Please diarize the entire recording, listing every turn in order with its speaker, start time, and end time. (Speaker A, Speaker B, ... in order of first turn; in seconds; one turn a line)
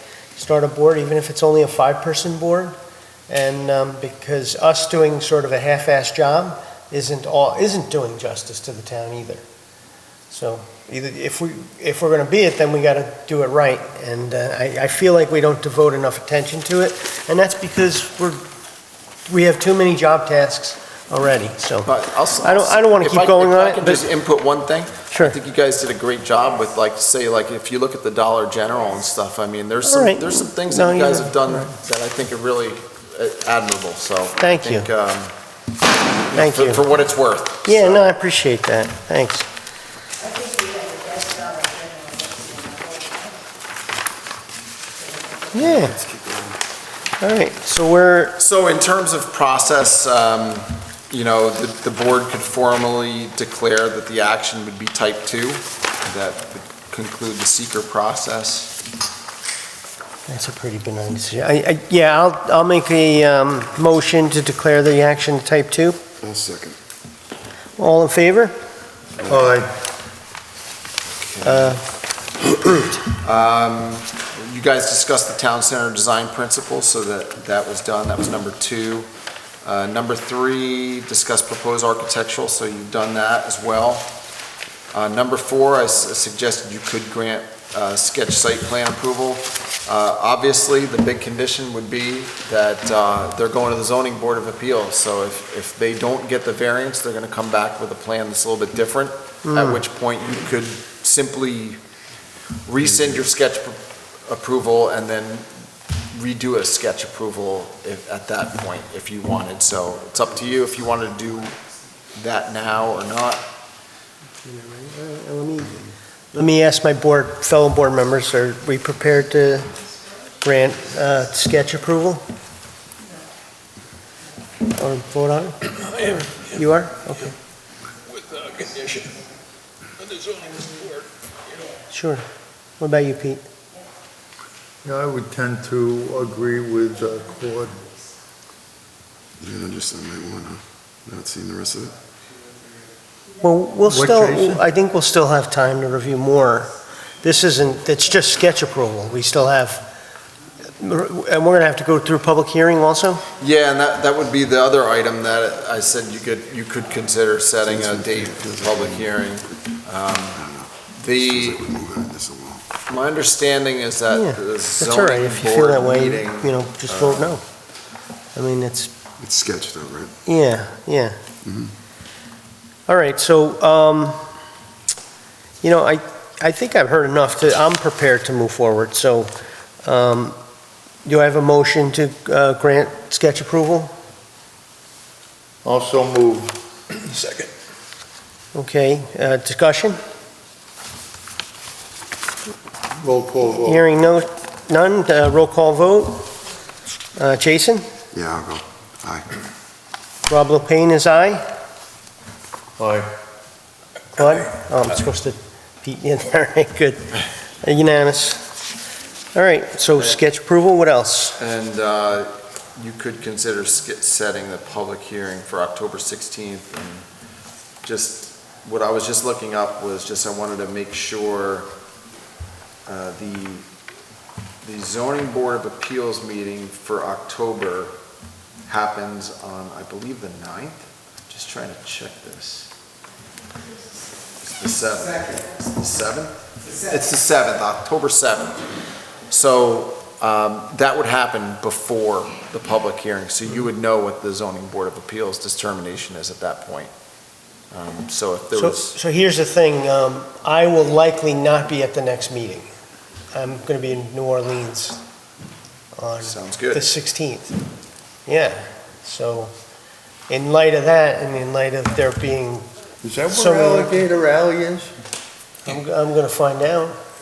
Speaker A: 0.4-2.8
Speaker A: 3.3-9.4
Speaker A: 10.3-18.4
Speaker A: 19.3-21.9
Speaker B: 21.8-35.3
Speaker A: 22.4-24.1
Speaker A: 29.8-31.7
Speaker A: 34.4-34.9
Speaker B: 36.3-38.1
Speaker A: 36.3-36.8
Speaker A: 37.6-39.5
Speaker C: 40.3-43.1
Speaker A: 45.5-46.0
Speaker D: 45.5-46.6
Speaker A: 47.2-48.4
Speaker B: 48.4-58.7
Speaker A: 60.3-66.0
Speaker D: 66.2-66.8
Speaker A: 67.8-68.6
Speaker D: 69.2-69.6
Speaker E: 69.3-69.7
Speaker B: 71.1-71.8
Speaker A: 71.4-71.8
Speaker B: 73.1-79.1
Speaker B: 79.6-84.1
Speaker B: 84.9-101.8
Speaker A: 99.5-99.8
Speaker B: 102.7-105.5
Speaker B: 106.1-111.6
Speaker B: 112.1-113.5
Speaker A: 114.4-115.8
Speaker A: 116.3-119.7
Speaker A: 120.4-122.2
Speaker A: 124.7-127.4
Speaker F: 128.1-129.2
Speaker F: 130.0-131.1
Speaker A: 131.9-132.2
Speaker A: 132.8-133.4
Speaker E: 134.8-137.8
Speaker D: 139.4-141.9
Speaker A: 143.4-149.9
Speaker E: 143.9-144.6
Speaker A: 150.8-153.2
Speaker B: 153.4-161.7
Speaker D: 157.7-159.1
Speaker D: 160.4-162.6
Speaker B: 162.9-167.4
Speaker A: 164.1-167.4
Speaker A: 168.3-168.9
Speaker D: 169.2-170.2
Speaker A: 170.2-171.2
Speaker D: 171.4-171.7
Speaker A: 172.9-174.2
Speaker A: 175.6-179.3
Speaker A: 179.8-180.4
Speaker A: 181.1-183.9
Speaker E: 185.6-186.6
Speaker F: 187.1-187.5
Speaker A: 188.5-190.0
Speaker E: 193.0-193.8
Speaker A: 193.6-196.3
Speaker A: 197.2-197.8
Speaker D: 198.1-199.4
Speaker A: 200.3-201.4
Speaker E: 202.8-203.1
Speaker A: 204.2-208.5
Speaker A: 209.3-211.4
Speaker B: 209.9-210.2
Speaker B: 211.4-217.1
Speaker B: 217.8-221.7
Speaker B: 222.9-223.7
Speaker B: 224.6-227.9
Speaker B: 228.7-232.7
Speaker B: 234.4-238.6
Speaker B: 239.3-246.9
Speaker B: 247.7-249.0
Speaker A: 248.5-252.7
Speaker A: 253.3-255.0
Speaker A: 256.0-257.6
Speaker B: 256.2-256.9
Speaker A: 258.2-259.5
Speaker A: 260.3-262.6
Speaker E: 263.0-264.9
Speaker A: 263.3-264.1
Speaker A: 265.6-267.0